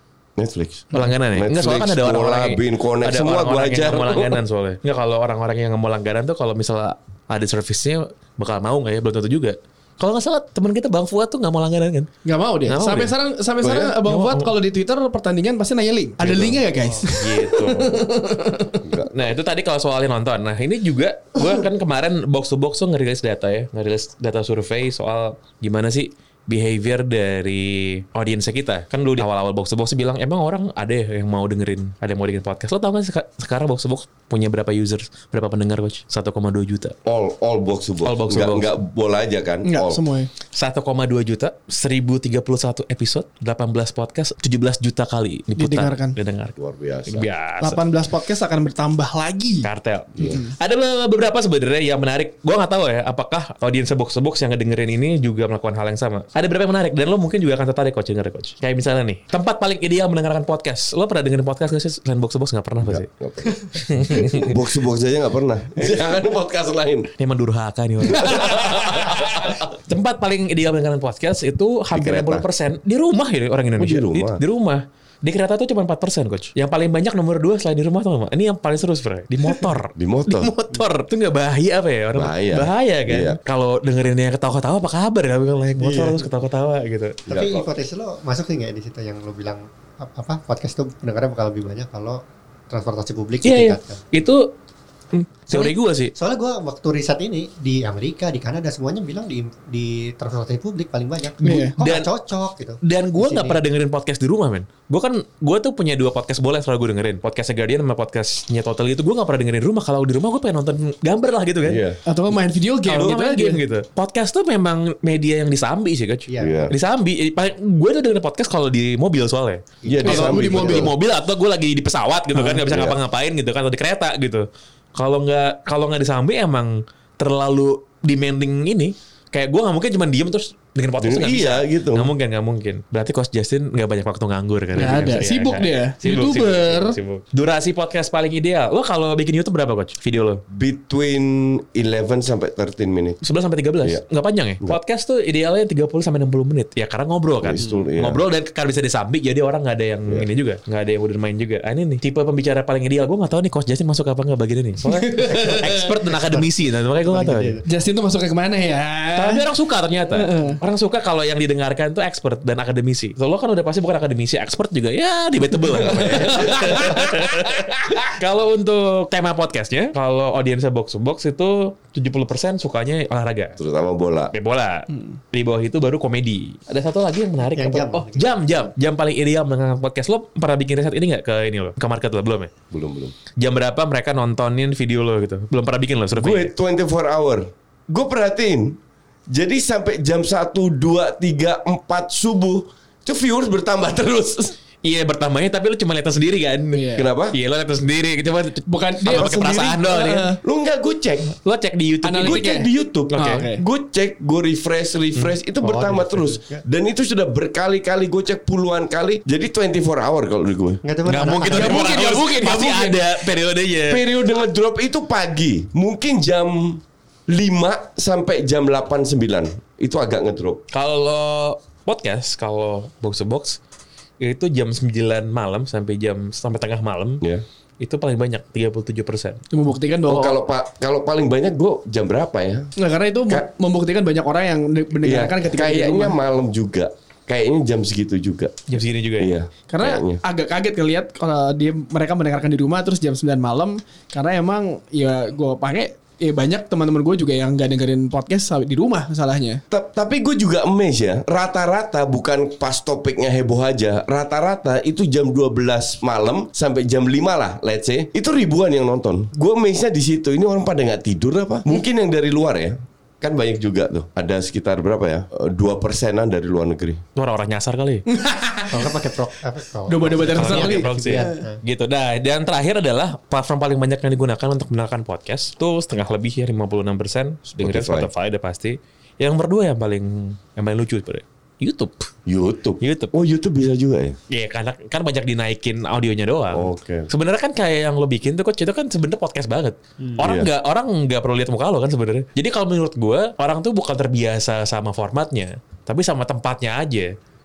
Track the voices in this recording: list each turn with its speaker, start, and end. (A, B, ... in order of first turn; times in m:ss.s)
0:00.4-0:04.4 A
0:00.9-0:12.1 B
0:12.2-0:18.9 C
0:12.7-0:13.1 B
0:13.6-0:13.9 A
0:14.0-0:14.5 B
0:16.2-0:16.6 A
0:17.1-0:18.0 B
0:18.8-0:19.2 A
0:19.1-0:37.0 B
0:37.0-0:40.0 A
0:38.0-0:38.7 B
0:39.6-0:40.3 C
0:40.5-0:47.8 B
0:45.6-0:46.2 C
0:46.6-0:47.3 A
0:47.6-0:49.7 C
0:49.6-1:03.1 B
0:50.2-0:50.5 C
1:02.8-1:07.1 A
1:03.6-1:04.6 B
1:07.2-1:27.2 B
1:08.1-1:09.6 A
1:11.9-1:12.4 A
1:13.8-1:14.4 A
1:19.9-1:20.5 A
1:22.2-1:23.4 A
1:25.8-1:26.2 D
1:27.2-1:27.7 A
1:27.3-1:34.0 D
1:33.4-1:34.5 B
1:35.1-1:36.1 B
1:35.5-1:43.6 D
1:41.4-1:41.8 C
1:41.4-1:42.1 B
1:42.8-1:51.8 B
1:51.6-1:52.0 A
1:52.0-1:53.6 C
1:52.8-2:20.4 B
1:56.3-1:56.7 D
1:56.4-1:56.7 A
1:59.8-2:00.3 D
1:59.9-2:00.9 A
2:00.0-2:00.9 C
2:02.6-2:03.0 A
2:11.0-2:12.1 A
2:14.7-2:17.0 C
2:20.5-2:23.2 A
2:23.2-2:37.6 B
2:27.4-2:28.2 A
2:34.8-2:35.9 C
2:35.2-2:37.6 D
2:37.6-2:39.4 C
2:39.2-2:53.6 B
2:40.1-2:40.6 C
2:45.8-2:47.1 C
2:46.0-2:47.0 A
2:53.6-2:54.3 A
2:54.3-3:02.5 B
2:54.9-2:55.2 C
2:57.5-2:58.3 D
3:02.7-3:03.2 A
3:03.4-3:06.5 B
3:06.1-3:08.8 A
3:09.3-3:14.6 A
3:14.8-3:20.3 B
3:16.7-3:17.1 C
3:17.0-3:17.4 A
3:18.7-3:20.4 C
3:19.1-3:19.6 A
3:20.4-3:21.4 A
3:21.4-3:22.5 B
3:22.0-3:23.6 C
3:22.2-3:30.8 A
3:23.1-3:23.4 B
3:25.6-3:26.6 D
3:30.8-3:31.9 D
3:31.0-3:34.0 B
3:31.4-3:33.0 C
3:33.9-3:40.6 A
3:40.7-3:43.6 B
3:44.2-3:47.2 B
3:47.8-3:49.4 B
3:49.5-3:50.4 C
3:50.1-3:52.7 A
3:52.8-3:56.2 C
3:55.0-3:58.6 A
3:58.7-3:59.3 B
3:59.2-4:00.2 A
3:59.7-4:09.6 C
4:09.7-4:27.0 A
4:27.2-4:28.0 B
4:28.1-4:28.8 C
4:28.7-4:31.6 D
4:29.9-4:31.4 C
4:30.3-4:42.1 B
4:37.5-4:38.1 A
4:42.3-4:44.2 A
4:42.8-4:43.1 B
4:44.3-4:57.1 B
4:46.5-4:47.1 A
4:50.2-4:50.5 A